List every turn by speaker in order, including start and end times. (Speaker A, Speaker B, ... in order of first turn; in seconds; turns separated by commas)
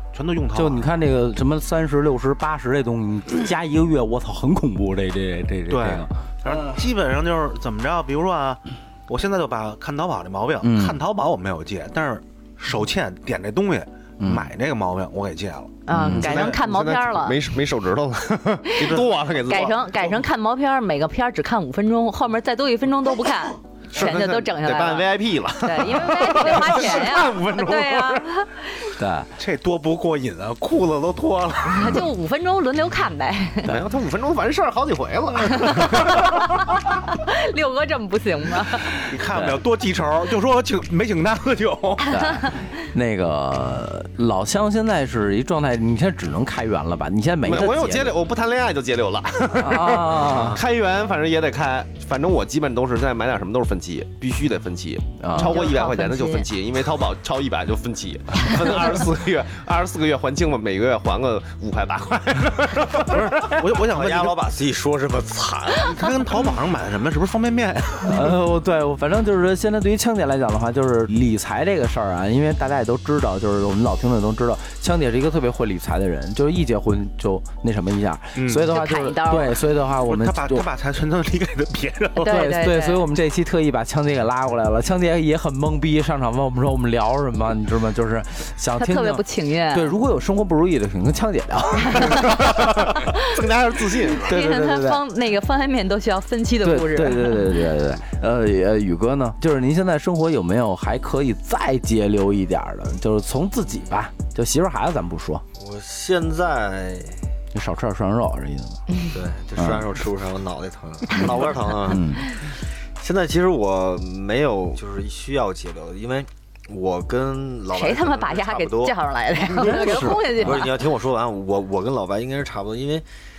Speaker A: 0.1-0.9, Speaker B: 0.5-6.5, Speaker A: 5.7-16.6, Speaker B: 10.6-11.0, Speaker B: 14.2-14.5, Speaker C: 15.8-17.4, Speaker B: 15.9-16.3, Speaker D: 16.0-20.2, Speaker C: 18.6-18.9, Speaker A: 18.8-19.2, Speaker C: 19.4-25.1, Speaker D: 23.9-28.2, Speaker C: 25.6-28.7, Speaker B: 29.0-29.3, Speaker A: 29.4-31.9, Speaker C: 31.7-33.7, Speaker D: 33.6-36.2, Speaker C: 35.5-38.9, Speaker A: 39.0-42.1, Speaker B: 39.3-39.6, Speaker B: 42.1-48.1, Speaker D: 47.4-63.5, Speaker B: 49.6-50.6, Speaker B: 55.2-55.6, Speaker C: 55.4-56.5, Speaker A: 62.9-64.4, Speaker E: 63.8-66.2, Speaker A: 65.8-68.3, Speaker B: 68.0-80.6, Speaker A: 78.3-78.7, Speaker C: 78.7-79.6, Speaker A: 80.0-82.4, Speaker C: 82.2-83.0, Speaker B: 82.2-92.5, Speaker C: 88.8-89.9, Speaker C: 91.9-92.4, Speaker D: 92.4-94.3, Speaker C: 94.1-97.5, Speaker B: 94.2-95.0, Speaker B: 96.6-105.4, Speaker E: 105.5-107.2, Speaker B: 107.5-108.8, Speaker E: 109.1-123.1, Speaker B: 109.6-109.8, Speaker B: 111.1-112.2, Speaker C: 117.7-120.8